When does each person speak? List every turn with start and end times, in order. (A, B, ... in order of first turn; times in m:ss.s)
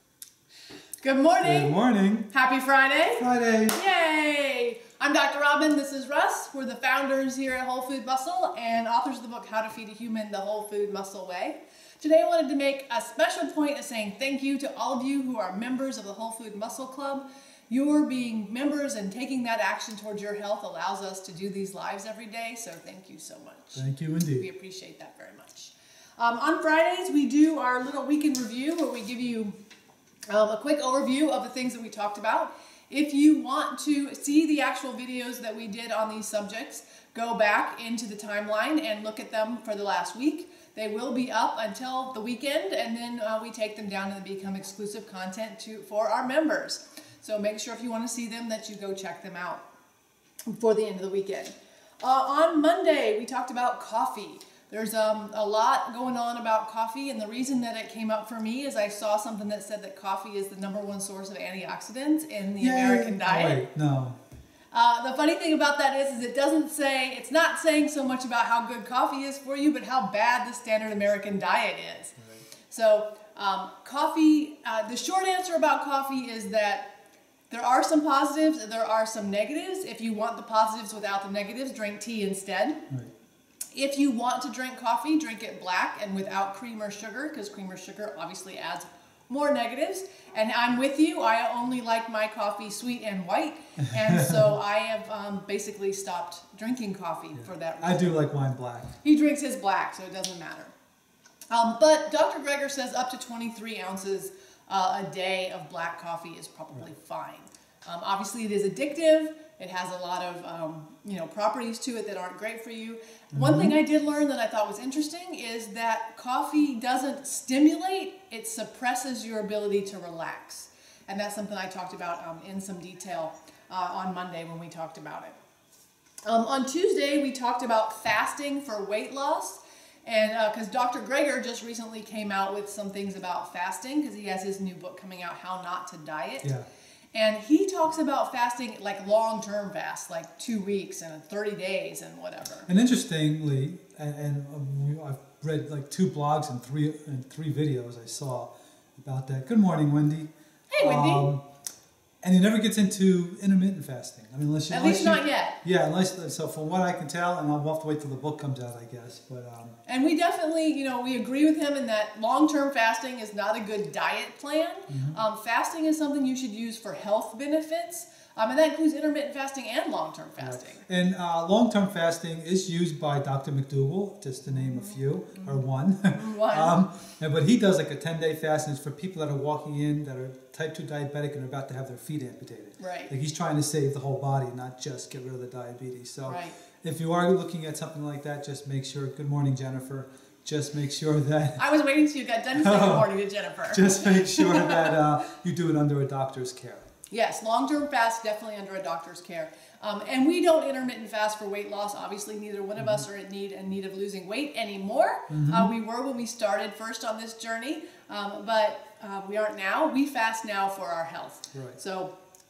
0:01.0-0:01.8 A
0:01.4-0:02.3 B
0:02.3-0:29.5 A
0:03.2-0:03.8 B
0:23.7-0:24.5 B
0:30.3-0:49.6 A
0:50.5-1:03.6 A
1:02.6-1:04.2 B
1:04.7-1:12.2 A
1:12.2-1:12.4 B
1:12.7-1:16.9 A
1:17.5-1:22.8 A
1:23.7-1:38.2 A
1:33.8-1:34.5 B
1:37.3-1:38.9 B
1:39.0-1:40.7 A
1:41.5-2:05.4 A
1:53.3-1:53.7 B
2:06.2-2:16.5 A
2:17.1-2:22.7 A
2:22.7-2:30.3 B
2:30.7-2:31.3 A
2:30.8-2:31.4 B
2:32.2-2:39.8 B
2:34.7-2:35.6 A
2:39.8-2:50.8 A
2:44.9-2:45.2 B
2:50.4-3:11.6 B
2:54.5-2:55.6 A
2:56.1-2:56.7 A
3:02.8-3:03.1 A
3:06.3-3:06.6 A
3:11.6-3:15.0 A
3:12.6-3:13.1 B
3:13.7-3:16.8 B
3:17.1-3:32.1 A
3:22.8-3:23.0 B
3:25.3-3:25.7 B
3:31.5-3:31.8 B